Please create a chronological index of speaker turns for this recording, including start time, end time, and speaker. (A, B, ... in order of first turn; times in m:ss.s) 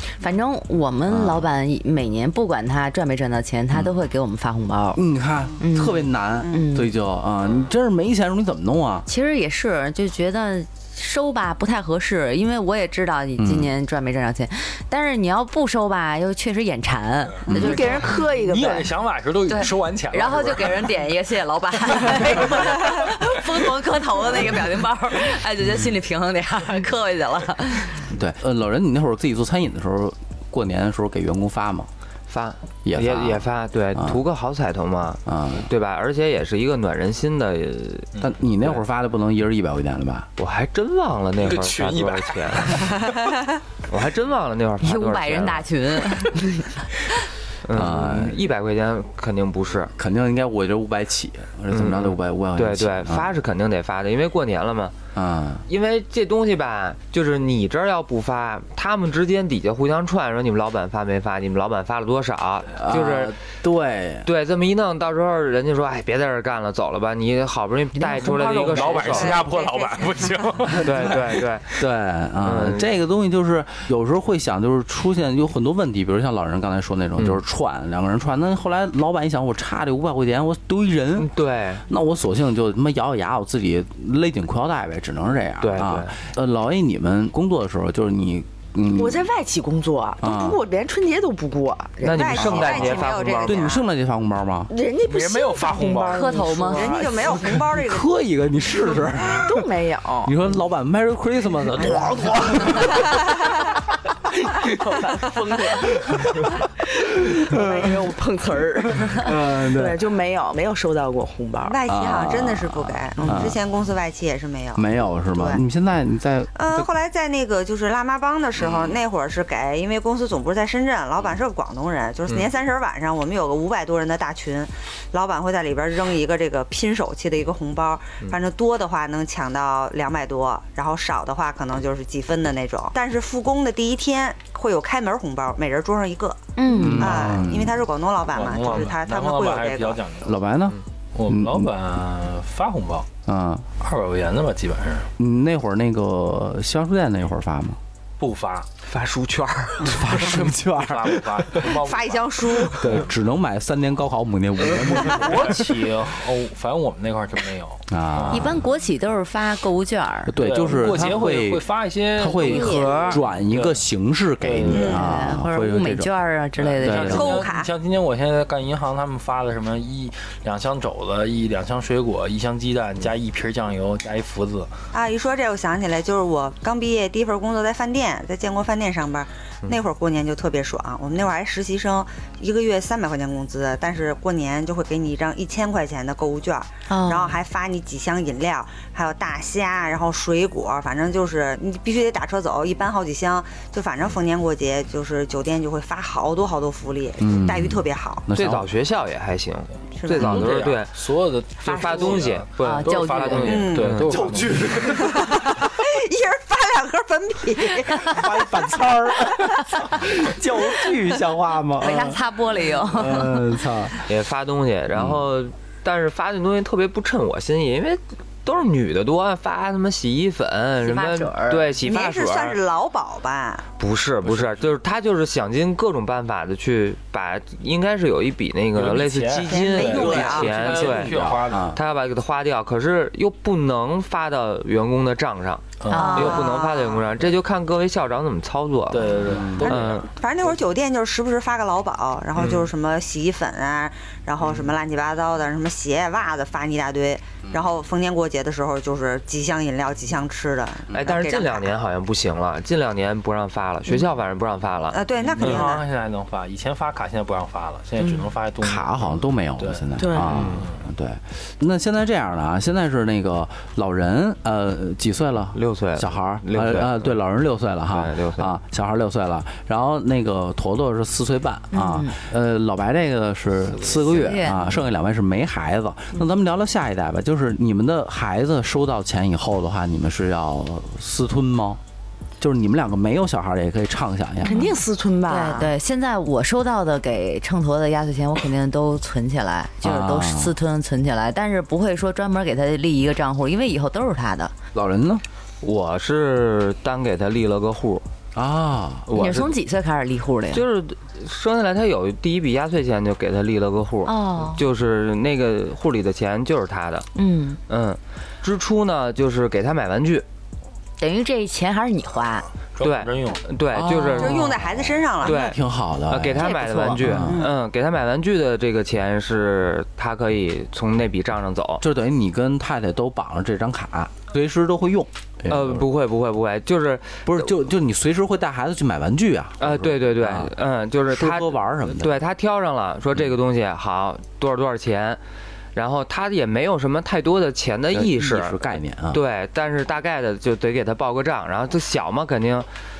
0:00.2-0:05.0 A
0:01.1-0:01.5 B
0:04.9-0:09.1 B
0:05.6-0:06.9 A
0:09.1-0:18.9 A
0:13.4-0:13.7 B
0:17.5-0:17.8 B
0:17.5-0:20.9 C
0:19.5-0:28.0 A
0:22.1-0:22.8 C
0:28.1-0:31.9 B
0:32.3-0:38.1 D
0:32.8-0:34.2 B
0:35.2-0:35.7 B
0:38.2-0:40.3 B
0:40.4-0:43.1 D
0:41.4-0:43.4 C
0:43.8-0:45.7 D
0:44.8-0:47.2 A
0:47.6-0:49.9 D
0:47.7-0:48.4 B
0:49.9-0:53.3 B
0:51.7-0:54.9 D
0:55.1-0:55.6 B
0:55.7-1:03.4 D
1:02.8-1:04.3 B
1:04.2-1:09.4 D
1:08.2-1:11.5 C
1:08.7-1:10.4 E
1:10.8-1:11.6 D
1:11.8-1:21.3 B
1:12.4-1:12.9 D
1:21.2-1:21.8 D
1:21.8-1:29.2 B
1:25.6-1:26.2 D
1:28.9-1:32.6 F
1:30.2-1:30.6 B
1:32.0-1:33.7 D
1:32.0-1:33.8 E
1:32.4-1:32.9 B
1:33.4-1:34.7 B
1:34.7-1:37.4 F
1:35.1-1:36.3 C
1:36.1-1:36.9 A
1:36.7-1:38.1 E
1:37.3-1:39.6 B
1:39.3-1:40.3 F
1:40.2-1:43.3 B
1:44.6-1:51.8 F
1:47.2-1:48.1 B
1:48.9-1:50.0 B
1:51.6-1:55.6 E
1:51.9-1:53.6 B
1:53.2-1:53.5 F
1:54.8-1:56.9 B
1:56.5-2:16.4 E
2:16.6-2:17.1 A
2:16.7-2:17.8 B
2:16.9-2:20.0 E
2:18.3-2:20.4 C
2:20.2-2:21.7 B
2:21.1-2:23.1 C
2:23.2-2:23.6 B
2:23.8-2:25.1 C
2:25.2-2:27.8 B
2:28.2-2:28.7 C
2:28.8-2:30.4 D
2:29.8-2:31.6 B
2:30.3-2:33.1 C
2:31.7-2:32.9 E
2:32.7-2:35.7 B
2:34.9-2:38.6 C
2:37.9-2:38.6 B
2:38.3-2:40.3 A
2:40.3-2:41.6 B
2:40.4-2:43.8 C
2:42.1-2:46.1 B
2:42.3-2:43.2 A
2:44.4-2:45.1 C
2:44.7-2:45.0 E
2:44.8-2:47.4 A
2:46.6-2:54.7 C
2:46.8-2:47.4 B
2:47.1-2:47.7 E
2:54.9-3:18.2 E
3:06.9-3:07.4 A
3:17.2-3:18.7 B
3:18.3-3:20.9 D
3:20.0-3:20.5 E
3:20.2-3:20.6 B
3:20.2-3:24.8 C
3:21.6-3:24.1 D
3:22.6-3:23.6 A
3:23.4-3:24.0 E
3:24.0-3:25.7 B
3:24.8-3:28.6 E
3:27.9-3:32.2 B
3:31.8-3:33.6 A
3:32.8-3:34.0 B
3:34.0-3:42.6 D
3:34.9-3:35.2 B
3:40.8-3:41.6 A
3:41.8-3:43.6 E
3:43.8-4:00.1 D
3:44.2-3:44.6 C
3:48.7-3:51.8 C
3:49.5-3:50.9 E
3:49.9-3:51.8 B
3:55.8-3:56.4 C
3:55.9-3:56.5 A
3:55.9-3:57.1 E
3:58.9-4:00.5 C
3:59.3-3:59.7 B
3:59.6-4:11.7 E
4:02.4-4:02.7 D
4:10.9-4:15.6 D
4:14.9-4:15.8 E
4:15.1-4:19.9 C
4:18.6-4:41.8 B
4:20.0-4:20.4 F
4:20.3-4:20.7 D
4:20.4-4:20.8 C
4:25.5-4:27.1 D
4:27.9-4:28.5 D
4:31.7-4:32.2 A
4:34.2-4:34.6 A
4:42.4-4:44.6 B
4:44.4-4:45.7 F
4:44.4-4:44.8 A
4:45.3-4:54.5 A
4:49.8-4:50.5 B
4:54.7-4:55.2 B
4:55.6-4:58.0 D
4:58.3-4:59.1 B
4:59.1-4:59.5 D
4:59.1-5:00.6 A
5:00.5-5:07.1 D
5:04.0-5:04.6 A
5:07.1-5:07.6 A
5:07.7-5:10.2 D
5:11.0-5:12.5 A
5:12.7-5:13.4 C
5:12.8-5:14.6 D
5:13.7-5:17.4 B
5:14.1-5:15.4 E
5:15.2-5:15.6 D
5:16.1-5:21.8 D
5:16.4-5:17.2 A
5:17.2-5:17.5 E
5:21.8-5:25.8 B
5:25.5-5:27.5 D
5:27.2-5:30.5 B
5:29.6-5:35.2 D
5:31.1-5:32.2 B
5:35.7-5:38.6 D
5:37.9-5:39.2 B
5:39.1-5:42.7 D